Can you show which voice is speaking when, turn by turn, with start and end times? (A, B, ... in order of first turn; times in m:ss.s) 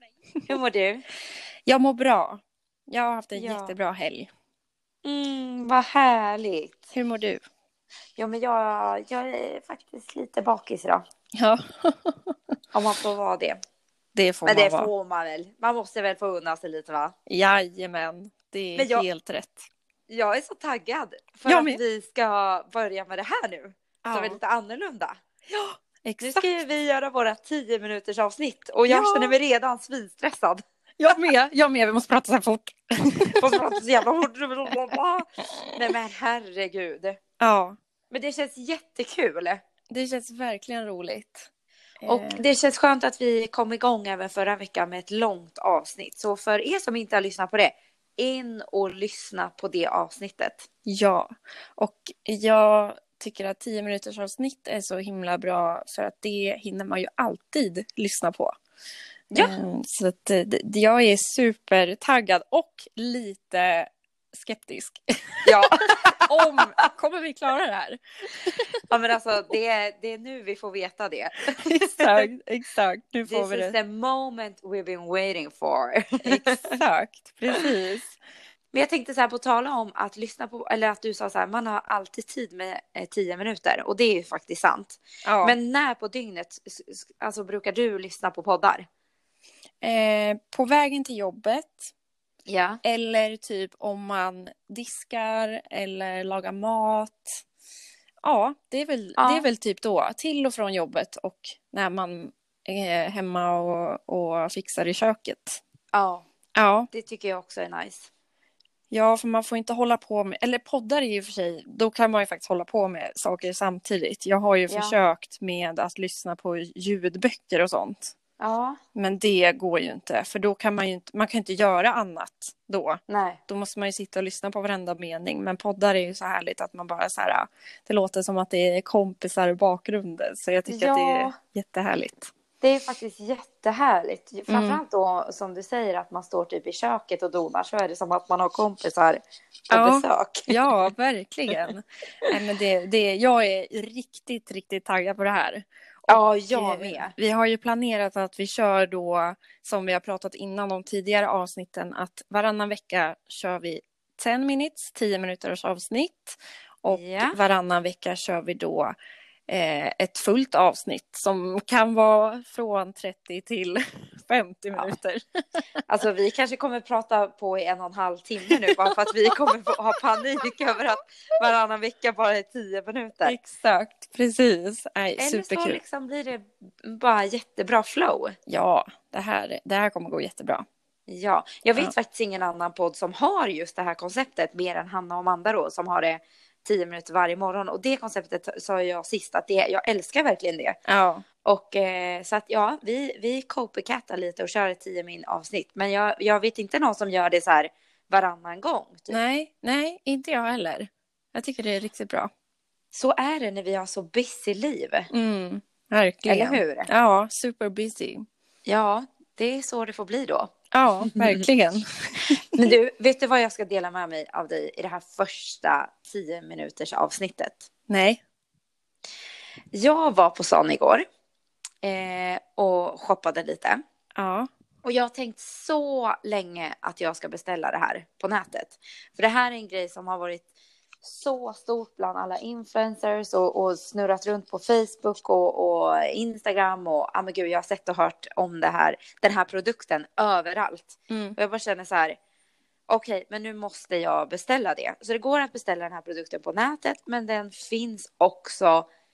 0:00.5-0:01.0 A
0:01.6-0:04.3 B
0:03.3-0:03.7 A
0:05.0-0:06.9 A
0:06.9-0:07.4 B
0:08.2-0:11.0 A
0:11.4-0:12.3 B
0:12.7-0:13.6 A
0:14.1-0:14.9 B
0:14.4-0:17.1 A
0:17.3-0:19.7 B
0:18.8-0:19.1 A
0:20.1-0:25.2 A
0:21.5-0:21.8 B
0:24.0-0:24.4 B
0:25.5-0:26.5 B
0:26.2-0:31.1 A
0:28.9-0:29.3 B
0:31.0-0:33.6 B
0:33.4-0:37.2 A
0:37.4-0:37.8 B
0:38.1-0:39.6 A
0:39.9-0:41.5 B
0:42.0-0:42.4 B
0:42.0-0:50.7 A
0:50.8-0:58.5 B
0:59.3-1:08.8 B
1:05.4-1:06.6 A
1:08.9-1:12.2 A
1:11.6-1:13.7 B
1:13.3-1:16.7 A
1:16.2-1:18.2 B
1:18.7-1:28.8 A
1:25.2-1:25.6 B
1:29.8-1:31.9 B
1:32.5-1:32.8 A
1:32.8-1:37.4 B
1:38.2-1:45.6 B
1:39.2-1:39.5 A
1:45.9-1:46.2 A
1:46.6-1:46.9 B
1:46.9-1:48.1 A
1:48.9-1:58.1 B
1:54.7-1:54.9 A
1:58.4-1:58.8 A
1:58.9-2:12.3 B
2:03.1-2:03.4 A
2:10.7-2:11.3 A
2:12.6-2:20.6 A
2:14.5-2:14.8 B
2:19.7-2:38.9 B
2:26.1-2:27.1 A
2:36.9-2:37.4 A
2:39.5-2:45.6 B
2:45.9-2:53.4 A
2:48.5-2:49.5 B
2:53.2-2:55.8 B
2:55.2-2:58.4 A
2:58.5-3:00.6 B
3:01.1-3:10.8 A
3:10.9-3:11.2 B
3:11.4-3:19.2 A
3:19.1-3:22.3 B
3:22.9-3:25.1 A
3:25.1-3:28.2 B
3:26.2-3:26.9 A
3:28.6-3:30.5 A
3:30.7-3:32.7 B
3:31.0-3:31.4 A
3:32.5-3:37.7 A
3:37.9-3:38.2 B
3:39.7-3:41.0 A
3:41.8-3:43.8 A
3:44.2-3:44.5 B
3:44.8-3:50.4 A
3:51.0-4:02.2 A
4:01.1-4:01.4 B
4:02.9-4:08.9 A